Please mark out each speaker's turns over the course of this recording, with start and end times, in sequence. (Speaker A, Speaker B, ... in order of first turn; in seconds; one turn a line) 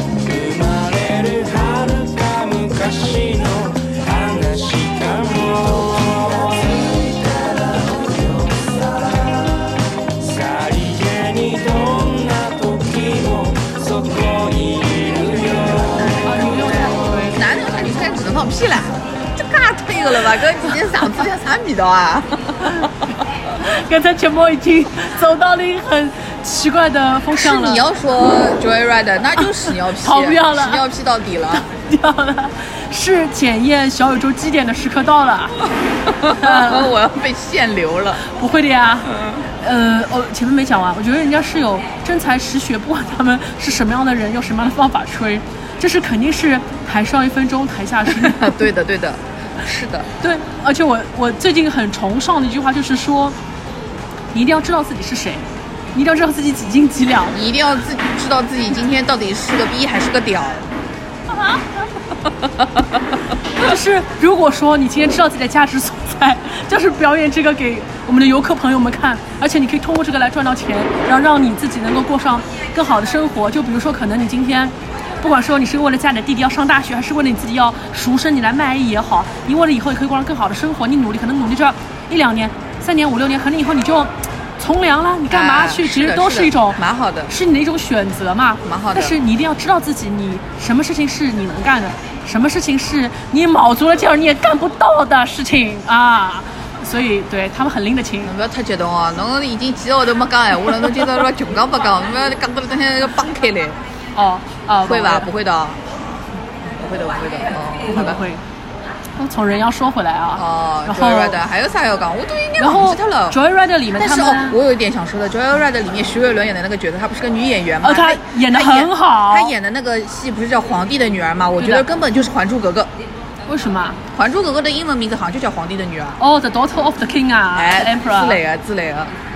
Speaker A: 0.2-9.3
Speaker A: 10.2-15.9
Speaker B: 16.1-17.4
Speaker C: 16.9-22.8
Speaker B: 23.5-27.8
Speaker C: 27.4-31.6
Speaker B: 29.4-30.8
Speaker B: 31.5-35.7
Speaker C: 36.1-38.2
Speaker B: 36.3-36.9
Speaker B: 38.3-48.5
Speaker C: 48.1-50.1
Speaker B: 50.2-53.4
Speaker B: 54.3-57.4
Speaker C: 57.3-60.7
Speaker B: 61.3-61.6
Speaker B: 63.6-98.3
Speaker C: 85.3-87.3
Speaker C: 88.6-89.2
Speaker C: 98.2-103.8
Speaker B: 104.1-105.3
Speaker C: 104.8-105.8
Speaker C: 106.6-108.2
Speaker B: 107.8-108.4
Speaker B: 109.2-111.4
Speaker C: 110.3-113.4
Speaker B: 112.6-114.6
Speaker C: 113.9-122.9
Speaker B: 117.8-119.5
Speaker B: 121.6-121.8
Speaker B: 123.5-124.0
Speaker C: 124.1-126.2
Speaker B: 126.2-128.4
Speaker C: 127.5-129.1